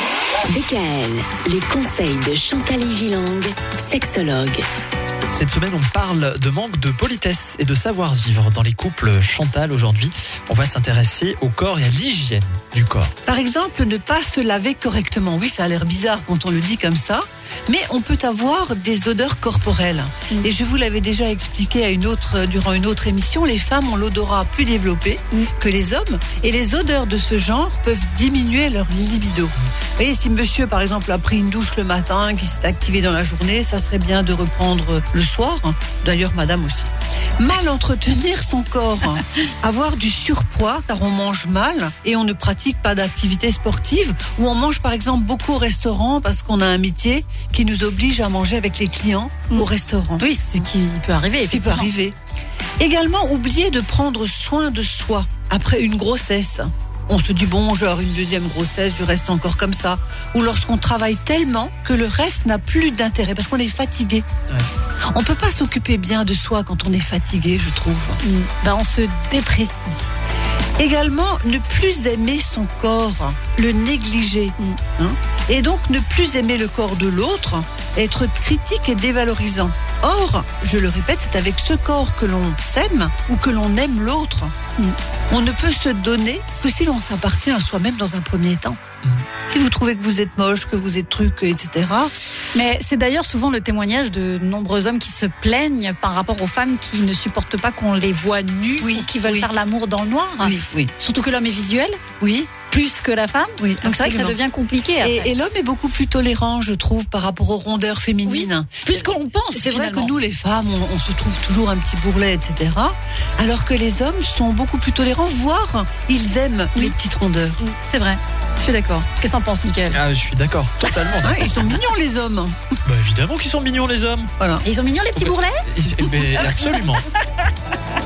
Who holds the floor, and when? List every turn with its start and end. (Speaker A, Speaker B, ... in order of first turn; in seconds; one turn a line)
Speaker A: 0.5-4.7
Speaker B: 5.3-13.1
Speaker C: 13.3-50.3
Speaker D: 50.2-51.9
Speaker C: 51.5-52.2
Speaker C: 52.8-64.3
Speaker C: 65.1-68.2
Speaker D: 68.2-70.1
Speaker C: 70.8-84.5
Speaker C: 85.3-88.8
Speaker C: 89.5-92.1
Speaker D: 92.5-102.0
Speaker C: 98.8-99.5
Speaker C: 100.4-100.9
Speaker C: 102.2-102.5
Speaker D: 102.6-105.3
Speaker C: 103.6-104.4
Speaker C: 105.0-117.6
Speaker D: 108.3-110.1
Speaker D: 117.6-120.0
Speaker B: 119.9-121.8
Speaker C: 121.2-122.5
Speaker B: 122.8-124.3
Speaker C: 124.4-124.7
Speaker D: 124.6-125.7
Speaker B: 125.2-127.1